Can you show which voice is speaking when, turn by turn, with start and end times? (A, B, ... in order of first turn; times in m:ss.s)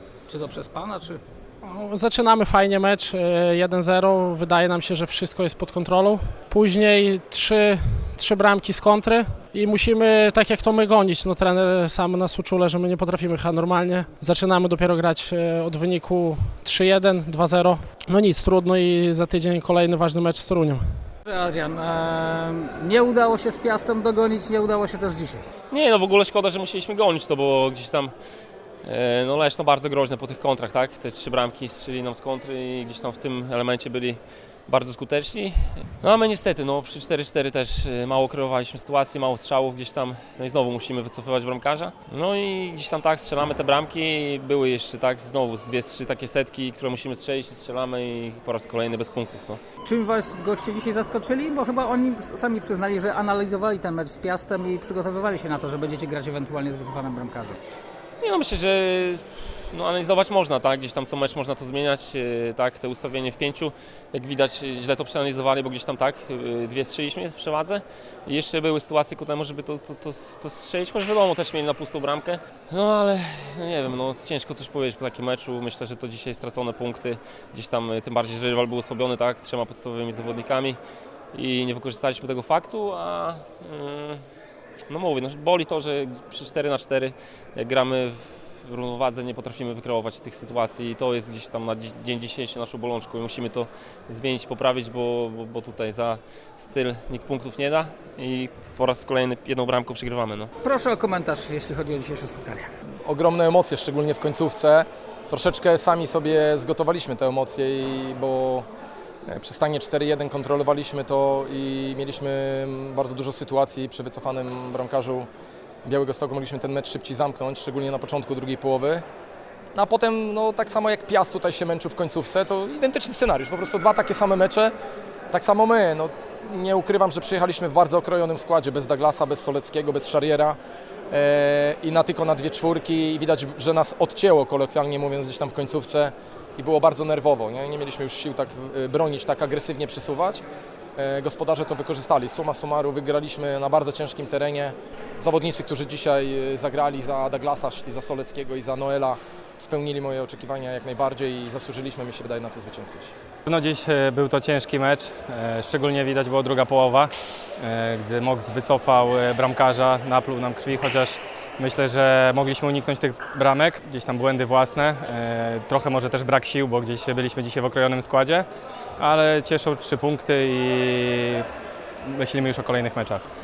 0:00.3-0:01.2 A
0:01.6-0:20.8 B
0:21.2-0:25.4 A
0:25.7-0:28.1 C
0:28.8-0:49.6 C
0:49.8-0:57.6 A
0:58.2-1:20.8 C
1:21.3-1:24.2 C
1:24.9-1:40.5 C
1:40.6-1:42.7 A
1:43.0-1:48.7 D
1:49.2-1:55.3 D
1:55.8-1:59.0 D
1:59.7-2:04.7 D
2:05.3-2:10.6 D
2:11.1-2:20.4 D
2:21.0-2:33.1 D
2:33.4-2:48.5 E
2:49.0-2:51.4 E
2:52.0-2:53.2 E